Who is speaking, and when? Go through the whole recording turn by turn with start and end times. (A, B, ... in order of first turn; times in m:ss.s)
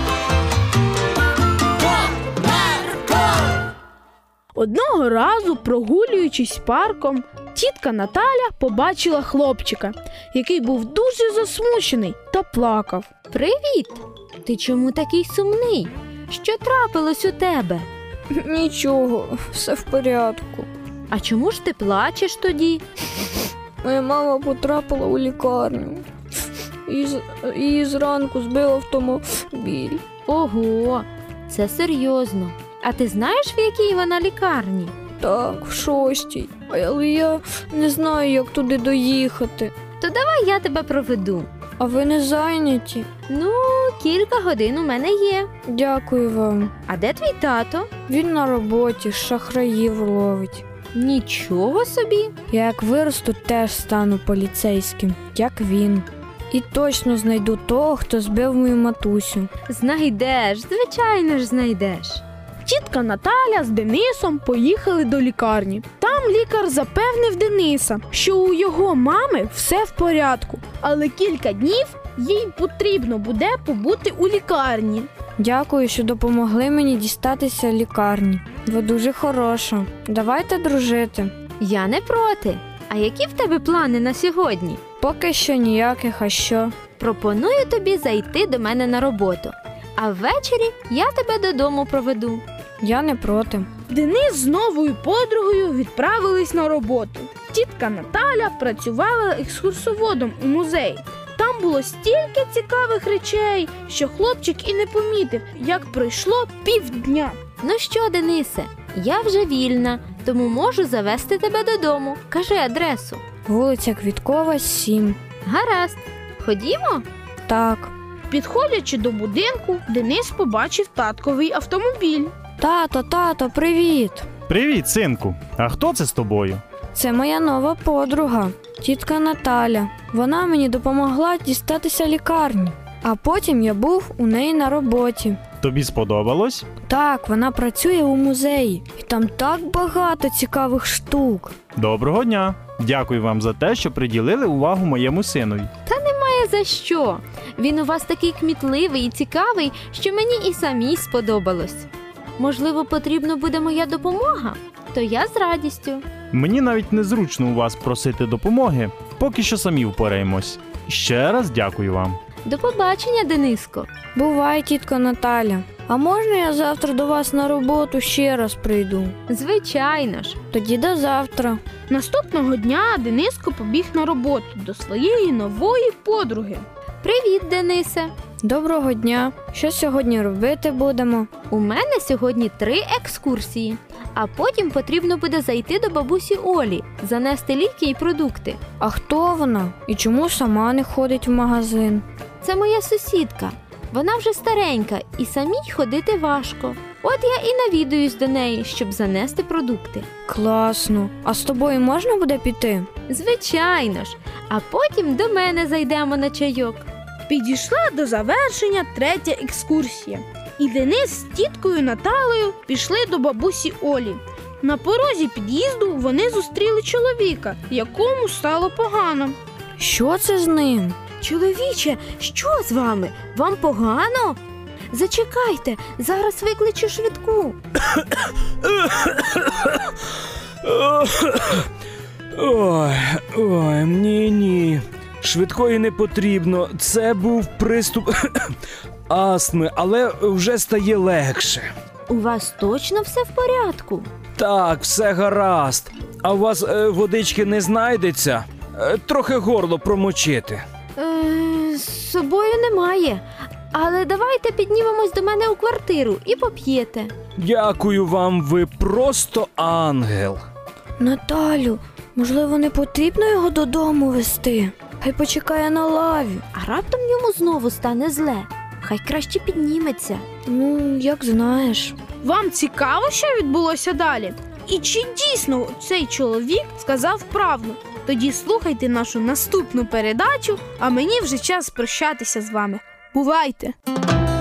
0:04.6-0:13.1 A
0:13.3-0:17.9 B
0:18.3-0:20.7 C
0:21.1-0:22.8 B
0:23.8-0:26.0 C
0:26.8-0:30.0 C
0:30.2-0:34.9 B
0:35.2-0:39.7 C
0:40.0-0:41.5 B
0:41.8-0:43.0 C
0:43.3-0:45.5 B
0:45.7-0:46.7 C
0:46.9-0:47.9 B
0:48.1-0:50.6 C
0:50.9-0:52.3 B
0:52.5-0:59.5 C
0:59.7-1:02.2 B
1:02.6-1:15.1 A
1:15.4-1:21.3 C
1:21.6-1:24.8 B
1:25.0-1:26.7 C
1:27.0-1:32.4 B
1:32.8-1:33.7 C
1:33.9-1:47.4 A
1:47.6-1:53.2 B
1:53.4-1:55.2 C
1:55.4-1:57.0 B
1:57.5-1:57.9 C
1:58.3-2:02.3 A
2:02.6-2:04.3 C
2:04.5-2:06.6 D
2:06.9-2:15.4 C
2:15.6-2:16.6 D
2:16.8-2:21.5 C
2:21.8-2:25.7 D
2:25.8-2:31.9 B
2:32.4-2:36.0 B
2:36.3-2:42.2 D
2:42.4-2:43.9 B
2:44.1-2:49.1 C
2:49.3-2:50.4 B
2:50.5-2:51.6 C
2:51.9-2:56.6 A
2:57.0-2:58.1 B
2:58.4-3:01.3 C
3:01.5-3:08.6 B
3:08.8-3:12.0 C
3:12.4-3:20.0 B
3:20.3-3:22.9 C
3:23.1-3:26.8 B
3:27.3-3:39.4 A
3:39.8-3:41.0 C
3:41.2-3:44.4 B
3:44.9-3:47.6 B
3:48.6-3:49.8 E
3:50.6-3:51.7 E
3:52.3-3:58.5 E
3:59.1-4:01.7 E
4:02.1-4:04.1 B
4:04.4-4:10.6 E
4:11.0-4:17.1 B
4:17.4-4:20.4 E
4:21.0-4:26.4 C
4:26.5-4:30.2 B
4:30.4-4:32.0 C
4:32.2-4:43.7 A